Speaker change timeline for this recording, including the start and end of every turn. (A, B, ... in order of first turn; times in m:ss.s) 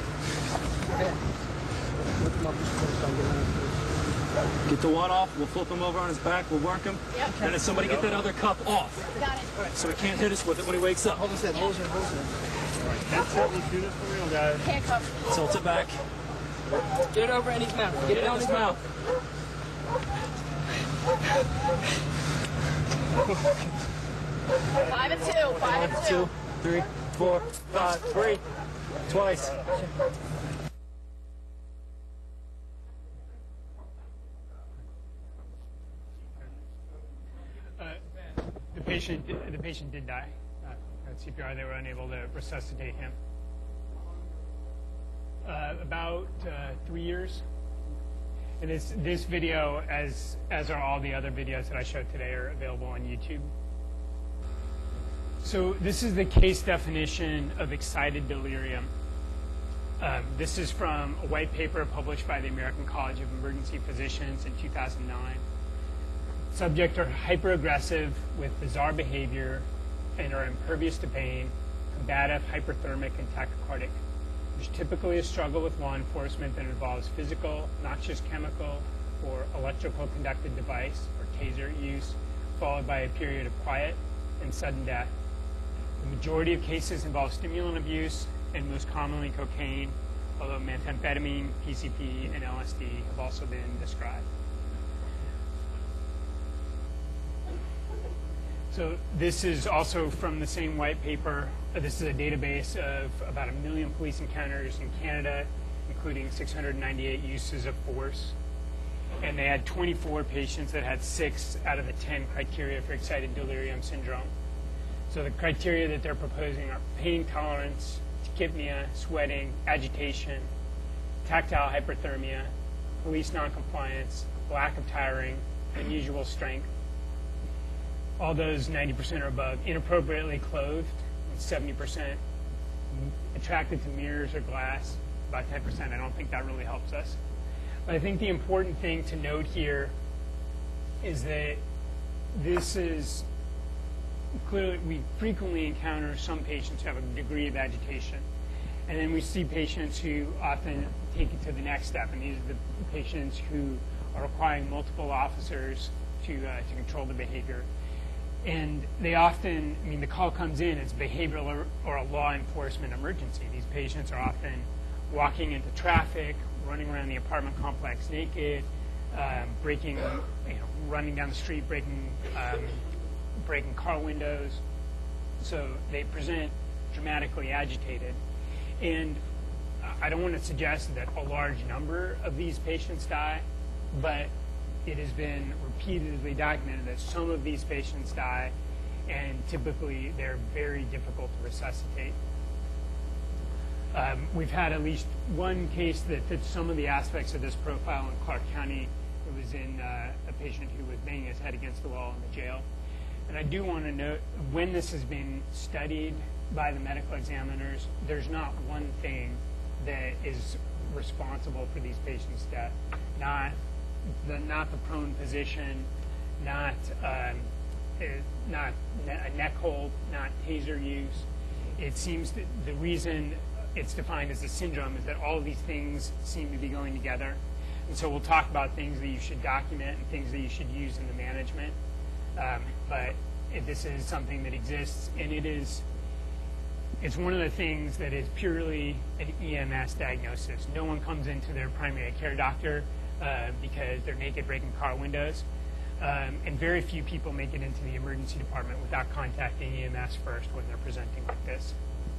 0:02.4-0:03.6 A
0:04.7-0:09.1 B
0:07.2-0:07.9 A
0:07.8-0:08.1 C
0:09.2-0:09.5 D
0:09.5-0:10.1 A
0:09.7-0:11.4 B
0:11.0-0:12.3 A
0:12.8-0:14.7 C
0:14.6-0:15.1 D
0:15.3-0:16.0 B
0:17.1-0:18.8 A
0:18.0-0:18.8 B
0:24.8-0:26.3 D
0:24.8-0:25.8 C
0:26.0-0:28.0 B
0:27.7-0:28.4 C
0:29.1-0:29.7 C
0:38.7-0:43.2 E
0:45.4-0:47.4 E
0:48.6-0:53.5 E
0:55.4-0:58.9 E
1:00.0-1:05.4 E
1:06.5-1:09.7 E
1:10.2-1:14.0 E
1:14.6-1:25.1 E
1:26.0-1:34.3 E
1:38.7-1:48.4 E
1:49.2-1:54.3 E
1:55.1-2:00.5 E
2:01.2-2:06.7 E
2:08.2-2:12.2 E
2:12.9-2:17.2 E
2:17.9-2:19.9 E
2:21.0-2:21.6 E
2:22.3-2:23.3 E
2:24.4-2:28.3 E
2:28.9-2:37.7 E
2:38.4-2:52.8 E
2:53.4-2:54.6 E
2:55.4-2:58.2 E
2:58.8-2:59.2 E
2:59.8-3:04.3 E
3:04.8-3:08.5 E
3:09.1-3:12.2 E
3:13.9-3:22.6 E
3:23.3-3:41.2 E
3:41.8-3:51.8 E
3:52.4-3:55.8 E
3:57.0-4:05.4 E
4:06.0-4:11.8 E